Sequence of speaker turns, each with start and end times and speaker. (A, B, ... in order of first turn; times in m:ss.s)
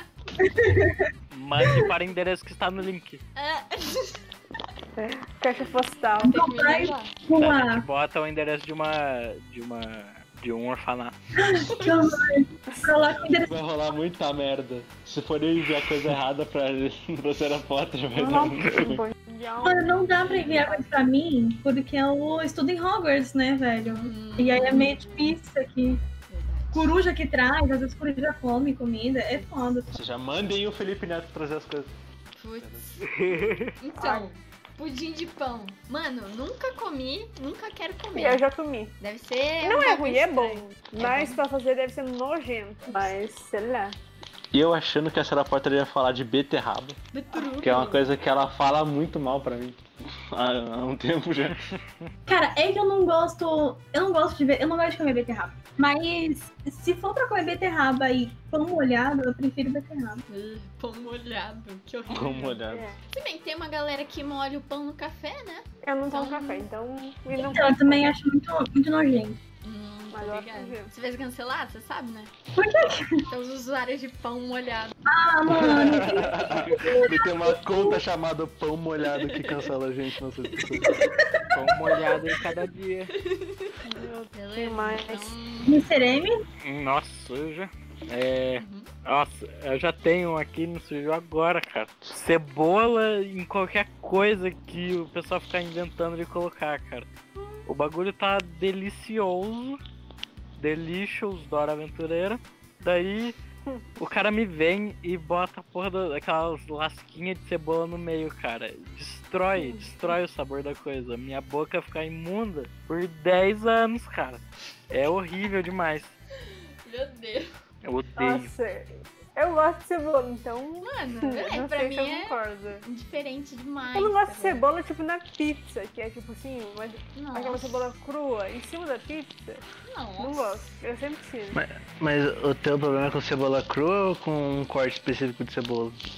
0:00.4-0:01.9 A
0:01.3-0:03.2 B
0:03.3-0:04.3 C
0:05.0-0:06.4 D
0:06.2-0:07.2 C
0:06.2-0:07.8 A
0:07.4-0:11.1 B
0:11.4-0:13.5 A
0:11.5-0:12.2 C
0:12.7-0:13.2 D
0:13.4-0:19.0 E
0:18.2-0:20.9 D
0:18.2-0:18.5 A
0:19.6-0:26.0 A
0:23.8-0:25.0 C
0:26.2-0:27.0 C
0:26.7-0:29.9 A
0:29.9-0:31.9 E
0:32.4-0:38.4 C
0:33.0-0:33.8 B
0:34.0-0:34.3 D
0:38.2-0:38.9 D
0:39.0-0:41.4 C
0:39.6-0:44.0 D
0:42.9-0:43.2 C
0:44.5-0:47.0 E
0:47.1-0:48.0 C
0:47.6-0:49.8 E
0:50.3-0:51.8 E
0:52.3-1:00.2 A
1:00.3-1:02.6 C
1:02.1-1:03.0 E
1:02.7-1:03.0 D
1:03.1-1:06.6 C
1:05.8-1:08.1 D
1:07.3-1:09.4 A
1:09.6-1:12.3 C
1:10.1-1:10.9 D
1:12.5-1:13.3 A
1:13.3-1:14.9 C
1:15.0-1:18.0 A
1:15.4-1:20.9 E
1:19.0-1:19.7 C
1:20.5-1:21.1 C
1:21.1-1:21.9 A
1:21.5-1:23.1 B
1:23.2-1:23.7 C
1:23.8-1:25.3 D
1:24.3-1:25.8 C
1:25.6-1:26.4 A
1:26.6-1:37.1 B
1:28.6-1:28.9 C
1:37.3-1:37.6 C
1:37.6-1:39.8 B
1:40.6-1:43.4 B
1:44.0-1:56.1 B
1:49.6-1:50.2 D
1:56.4-1:57.5 C
1:57.8-1:58.5 B
1:58.2-2:02.8 D
2:00.8-2:04.6 C
2:03.9-2:09.6 D
2:07.2-2:07.9 C
2:09.8-2:10.7 C
2:10.2-2:11.6 D
2:11.5-2:16.0 E